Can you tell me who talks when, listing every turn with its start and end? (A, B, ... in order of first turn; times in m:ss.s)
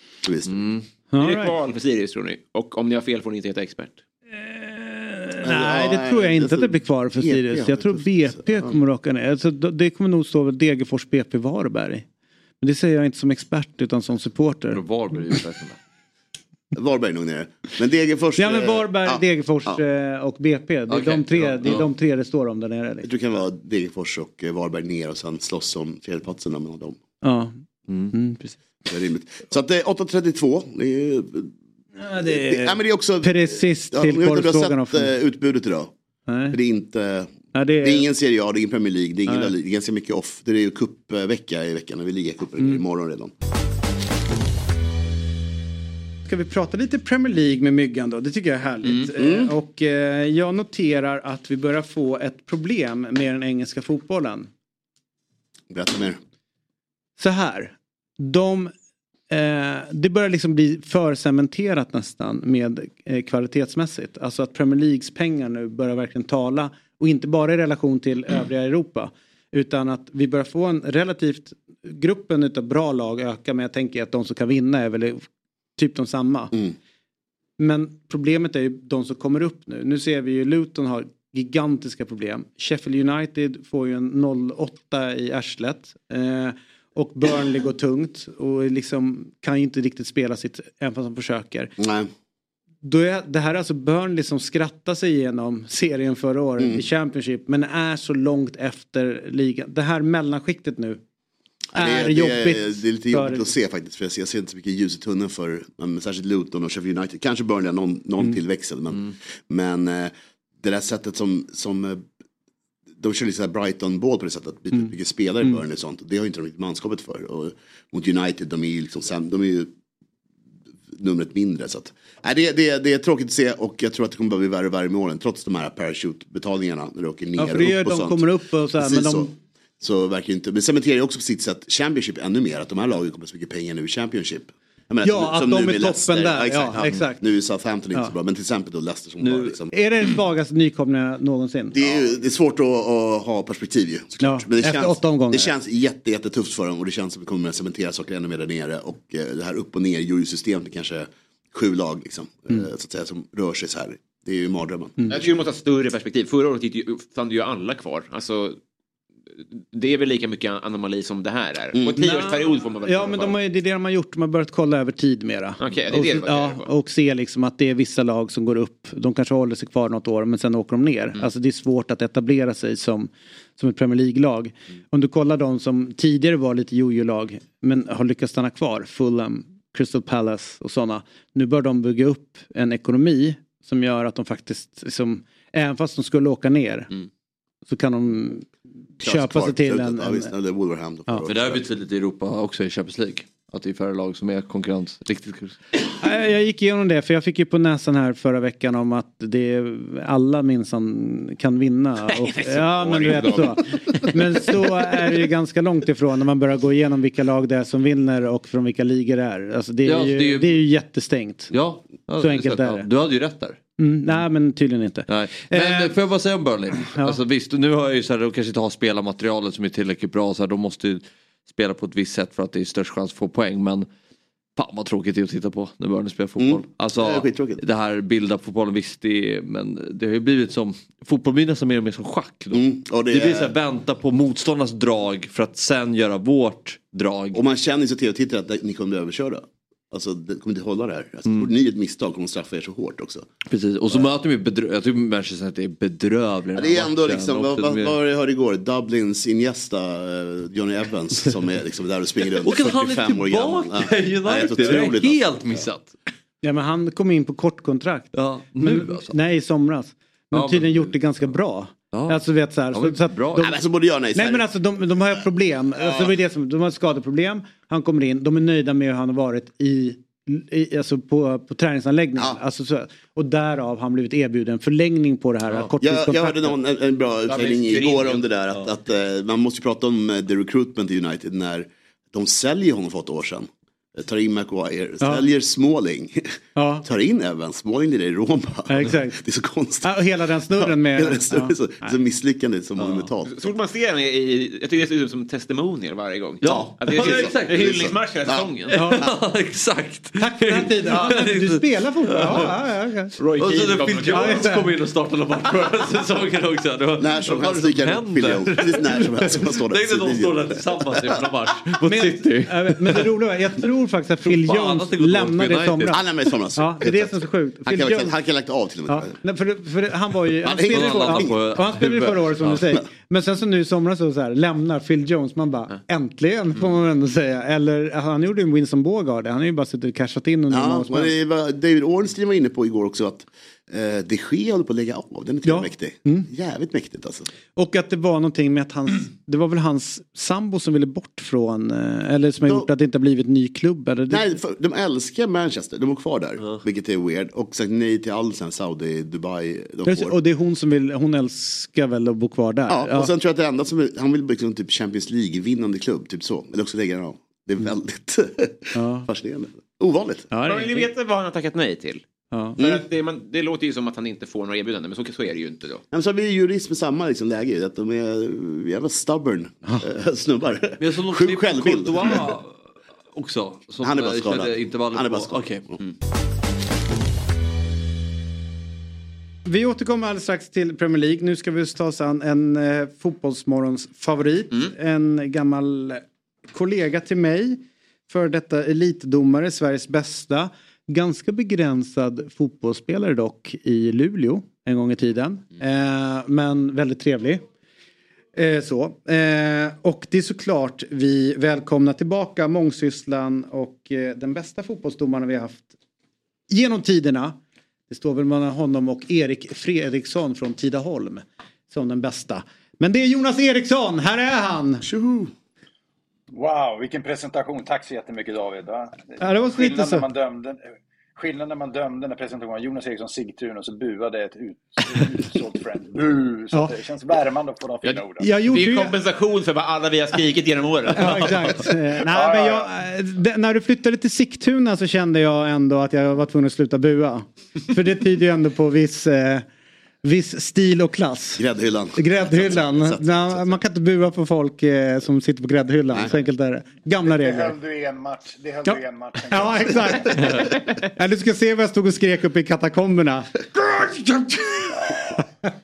0:00.2-0:00.7 A
0:00.5-0:00.8 B
0:01.1-0:01.6 C
0:01.2-0:04.0 D
0:04.3-0:12.1 C
0:05.4-0:08.8 A
0:12.6-0:14.8 C
0:14.7-0:15.8 B
0:16.7-0:19.8 A
0:18.4-0:23.1 C
0:20.9-0:21.8 B
0:23.0-0:27.0 A
0:27.2-0:27.6 C
0:28.1-0:28.6 C
0:28.9-0:31.5 A
0:32.0-0:35.1 C
0:32.1-0:35.9 A
0:36.3-0:36.6 C
0:36.5-0:43.3 A
0:37.5-0:38.0 C
0:46.3-0:54.5 C
0:49.1-0:49.6 A
0:55.7-0:56.2 A
0:57.2-0:58.7 C
0:59.3-1:15.3 C
1:15.8-1:16.5 C
1:17.6-1:31.7 C
1:31.8-1:32.1 A
1:32.8-1:41.0 C
1:36.6-1:36.8 A
1:41.8-1:52.0 A
1:41.8-1:43.5 C
1:53.0-1:59.7 A
2:01.0-2:19.8 A
2:07.4-2:09.3 C
2:15.0-2:17.2 C
2:19.2-2:19.5 B
2:19.7-2:21.8 C
2:21.7-2:35.3 A
2:24.2-2:25.5 C
2:35.1-2:38.6 D
2:39.3-2:43.4 D
2:41.7-2:42.1 A
2:42.0-3:06.9 C
2:45.6-2:46.7 D
3:07.7-3:08.5 C
3:09.0-3:10.3 C
3:09.0-3:11.7 A
3:11.3-3:15.6 B
3:16.0-3:31.5 C
3:22.1-3:24.2 D
3:29.8-3:30.6 B
3:31.5-3:33.6 B
3:32.2-3:32.9 C
3:33.8-3:35.9 C
3:35.1-3:43.9 B
3:36.9-3:37.2 C
3:44.6-3:57.4 B
3:46.4-3:47.6 A
3:52.5-3:53.6 A
3:57.3-4:03.3 A
4:03.5-4:08.0 B
4:06.5-4:15.6 A
4:12.4-4:16.0 B
4:14.6-4:14.9 C
4:16.4-4:23.6 C
4:18.1-4:19.1 B
4:20.3-4:20.9 B
4:21.9-4:22.2 B
4:22.7-4:23.4 B
4:23.4-4:24.5 A
4:24.1-4:36.6 C
4:25.8-4:26.1 A
4:35.8-4:53.5 A
4:37.3-4:38.2 D
4:45.0-4:45.3 C
4:46.6-4:46.8 C
4:48.7-4:49.2 C
4:49.8-4:52.0 C
4:52.8-4:53.1 B
4:53.3-4:58.8 D
4:56.4-4:57.8 B
4:56.9-4:59.1 A
4:58.7-5:02.5 B
4:58.7-4:59.1 C
5:00.2-5:03.1 C
5:03.2-5:04.5 D
5:03.4-5:13.1 B
5:04.1-5:04.7 C
5:07.0-5:11.3 A
5:11.8-5:16.0 C
5:14.2-5:16.0 B
5:15.9-5:19.2 A
5:16.6-5:18.2 C
5:18.9-5:31.1 C
5:20.4-5:21.6 A
5:20.6-5:22.7 B
5:30.5-5:37.3 A
5:35.4-5:36.3 C
5:37.6-5:44.3 C
5:44.1-5:50.2 A
5:49.8-5:53.1 C
5:52.7-6:00.3 A
5:58.8-5:59.1 C
6:00.3-6:00.9 C
6:00.5-6:02.0 D
6:02.3-6:02.6 C
6:02.6-6:05.8 D
6:05.9-6:12.3 A
6:10.8-6:12.6 B
6:13.1-6:15.7 B
6:13.8-6:15.9 A
6:19.5-6:37.4 C
6:38.4-6:45.8 C
6:46.5-6:47.4 C
6:47.9-6:54.8 C
6:54.8-6:55.3 A
6:56.3-7:00.6 E
6:59.2-7:00.0 C
7:01.2-7:08.4 E
7:07.8-7:11.6 D
7:08.2-7:09.0 C
7:11.0-7:19.4 C
7:12.1-7:12.7 E
7:20.0-7:21.4 C
7:21.4-7:23.6 A
7:22.0-7:27.6 C
7:27.0-7:30.4 E
7:29.3-7:33.4 C
7:34.7-7:35.3 E